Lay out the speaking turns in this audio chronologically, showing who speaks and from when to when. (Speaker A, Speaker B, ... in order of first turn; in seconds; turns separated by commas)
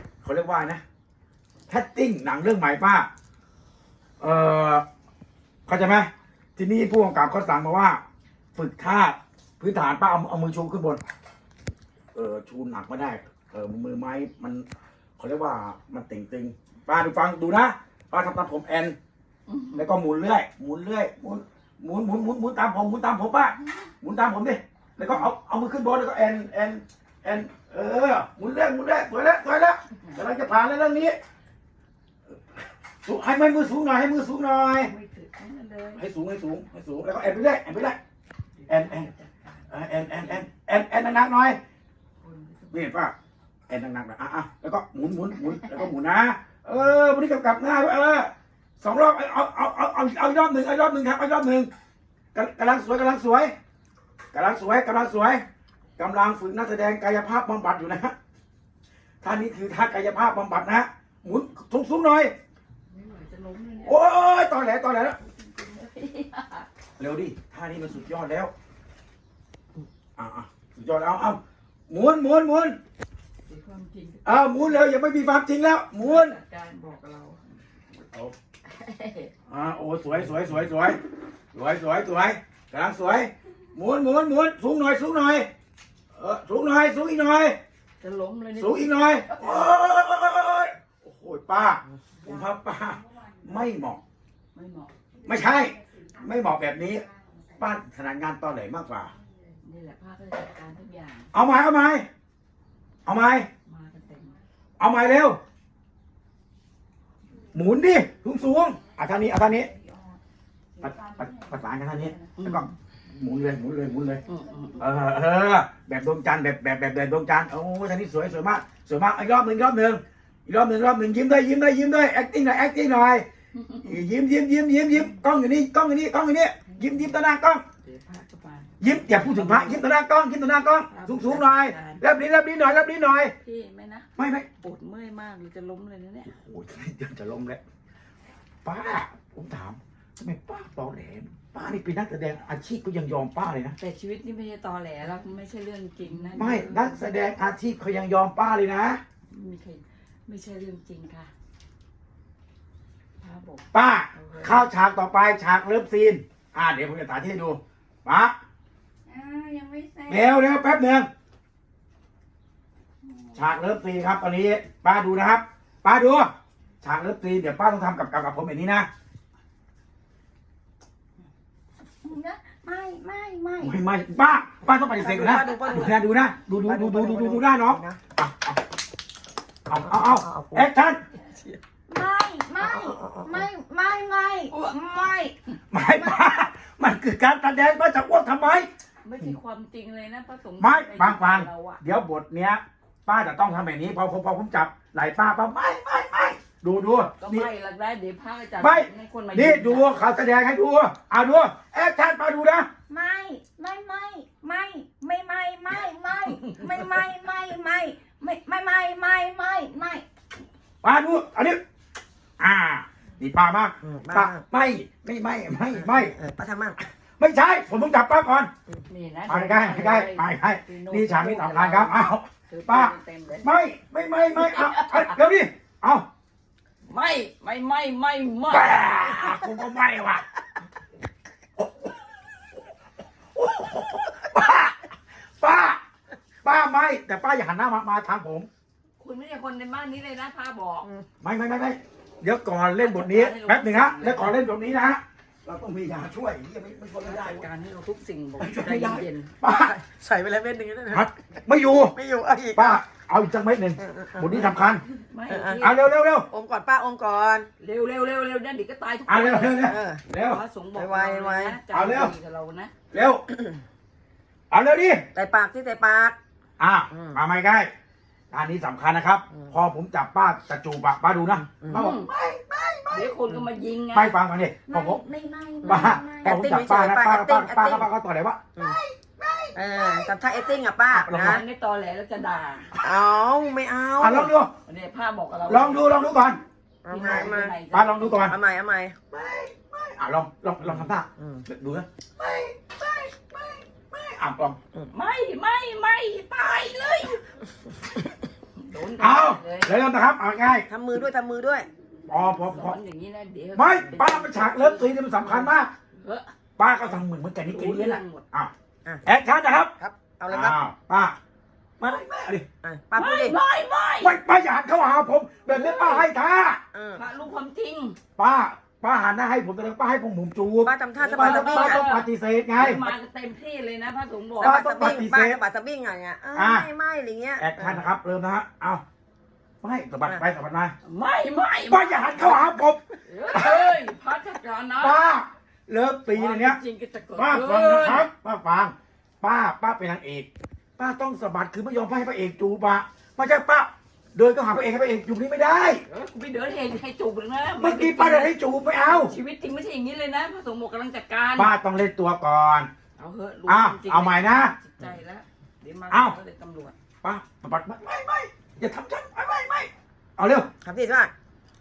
Speaker A: 0.2-0.8, Speaker A: 1.7-3.1, Speaker A: 4.2-4.8, Speaker A: 5.7-8.0, Speaker A: 8.5-11.0, Speaker A: 12.1-14.6, Speaker A: 15.2-18.9, Speaker B: 19.5-19.9, Speaker A: 19.7-31.2, Speaker B: 25.0-25.3, Speaker A: 33.0-34.9, Speaker B: 34.8-36.0, Speaker A: 35.9-38.0, Speaker B: 38.6-40.4, Speaker A: 38.7-39.1, Speaker A: 39.7-41.6, Speaker B: 42.2-42.9, Speaker A: 42.7-43.1, Speaker A: 43.7-51.7, Speaker A: 52.3-53.5, Speaker A: 54.3-55.4, Speaker A: 56.0-58.1, Speaker A: 59.2-62.3, Speaker B: 62.9-64.0, Speaker A: 63.8-65.2, Speaker B: 65.2-66.7, Speaker A: 67.0-68.5, Speaker A: 70.2-72.8, Speaker B: 73.5-74.7, Speaker A: 74.2-76.4, Speaker B: 76.0-77.4, Speaker B: 78.7-79.3, Speaker A: 79.5-81.0, Speaker A: 81.5-85.5, Speaker A: 86.2-87.6, Speaker B: 88.0-89.8, Speaker A: 88.6-94.0, Speaker B: 94.5-94.9, Speaker A: 95.2-97.0, Speaker C: 95.4-95.8, Speaker A: 97.6-99.1, Speaker B: 99.6-101.3, Speaker A: 101.3-102.1, Speaker A: 103.0-103.5, Speaker B: 103.6-104.4, Speaker A: 104.8-105.4, Speaker A: 107.5-109.7, Speaker A: 110.8-114.2, Speaker B: 112.3-112.7, Speaker B: 114.2-114.8, Speaker A: 114.8-123.2, Speaker B: 123.5-124.0, Speaker A: 123.8-127.6, Speaker B: 126.7-127.2, Speaker B: 127.8-129.8, Speaker A: 128.8-133.3, Speaker B: 130.9-132.0, Speaker B: 133.4-136.3, Speaker A: 134.2-134.5, Speaker A: 136.3-137.6, Speaker A: 138.6-143.8, Speaker B: 143.8-147.1, Speaker A: 146.3-149.0, Speaker B: 149.3-151.3, Speaker B: 153.2-154.7, Speaker A: 153.7-158.3, Speaker C: 159.1-160.3, Speaker A: 160.1-161.1, Speaker B: 163.1-163.6, Speaker A: 163.3-166.3, Speaker A: 166.8-168.9, Speaker C: 172.0-173.7, Speaker A: 173.6-178.6, Speaker D: 175.0-176.0, Speaker D: 176.6-178.0, Speaker A: 179.7-181.0, Speaker D: 179.8-180.7, Speaker D: 181.3-181.6, Speaker C: 181.9-186.3, Speaker D: 182.6-183.4, Speaker A: 185.7-188.7, Speaker B: 189.0-191.8, Speaker A: 190.6-197.5, Speaker B: 197.2-200.0, Speaker A: 198.6-202.7, Speaker C: 202.9-210.0, Speaker A: 210.8-211.6, Speaker A: 212.4-216.1, Speaker D: 213.8-214.4, Speaker D: 215.7-216.8, Speaker A: 217.2-218.5, Speaker B: 218.9-223.5, Speaker A: 219.3-226.1, Speaker B: 224.3-225.2, Speaker B: 226.9-229.5, Speaker A: 228.5-230.2, Speaker A: 231.6-232.0, Speaker A: 233.3-234.8, Speaker A: 235.4-235.8, Speaker A: 236.4-238.5, Speaker B: 239.0-240.9, Speaker A: 241.2-247.4, Speaker B: 242.8-244.4, Speaker B: 247.0-249.3, Speaker A: 248.4-249.8, Speaker D: 249.5-251.1, Speaker A: 250.9-251.9, Speaker D: 251.9-252.8, Speaker A: 252.5-254.8, Speaker D: 253.8-254.6, Speaker B: 255.0-255.8, Speaker D: 255.3-255.7, Speaker A: 255.6-256.2, Speaker D: 256.3-257.5, Speaker B: 257.6-262.7, Speaker A: 259.1-260.4, Speaker D: 259.6-260.0, Speaker D: 260.7-261.6, Speaker A: 261.7-262.1, Speaker A: 262.9-263.2, Speaker A: 264.5-265.0, Speaker D: 265.1-266.2, Speaker A: 266.6-267.7, Speaker D: 266.9-267.2, Speaker A: 268.3-273.1, Speaker D: 271.3-271.9, Speaker B: 271.7-272.1, Speaker B: 272.9-274.1, Speaker A: 273.9-275.0, Speaker C: 274.6-276.4, Speaker D: 275.6-277.9, Speaker A: 275.6-278.5, Speaker C: 278.6-280.1, Speaker D: 279.5-281.4, Speaker A: 280.9-281.4, Speaker B: 281.1-282.7, Speaker D: 282.8-284.3, Speaker A: 284.0-284.5, Speaker B: 284.6-285.9, Speaker A: 285.5-286.4, Speaker D: 286.8-287.6, Speaker B: 286.9-288.3, Speaker A: 286.9-288.3, Speaker D: 288.2-289.0, Speaker A: 289.1-294.6, Speaker D: 290.7-291.4, Speaker B: 294.9-297.2, Speaker B: 298.6-299.8, Speaker A: 299.0-300.6, Speaker D: 300.7-301.7, Speaker A: 302.1-302.8, Speaker B: 302.4-306.3, Speaker A: 303.5-305.7, Speaker A: 306.6-308.5, Speaker B: 306.8-308.2, Speaker A: 309.0-309.7, Speaker D: 309.8-310.6, Speaker A: 310.3-311.1, Speaker A: 311.8-312.4, Speaker D: 312.6-313.4, Speaker B: 312.9-314.2, Speaker A: 314.0-316.6, Speaker B: 315.5-316.1, Speaker D: 316.7-317.0, Speaker B: 316.9-318.0, Speaker A: 318.2-322.8, Speaker D: 320.6-321.8, Speaker B: 321.0-324.6, Speaker D: 324.4-327.8, Speaker A: 324.4-325.4, Speaker A: 326.3-326.7, Speaker A: 327.4-328.8, Speaker A: 329.6-330.7, Speaker B: 330.8-332.4, Speaker A: 331.7-333.8, Speaker B: 333.1-335.0, Speaker A: 334.8-336.6, Speaker B: 336.1-338.1, Speaker A: 337.1-345.8, Speaker B: 345.9-351.5, Speaker A: 347.6-349.1, Speaker A: 351.4-352.7, Speaker B: 353.0-356.7, Speaker A: 353.5-354.5, Speaker A: 355.9-356.1, Speaker A: 357.0-360.5, Speaker D: 360.6-361.1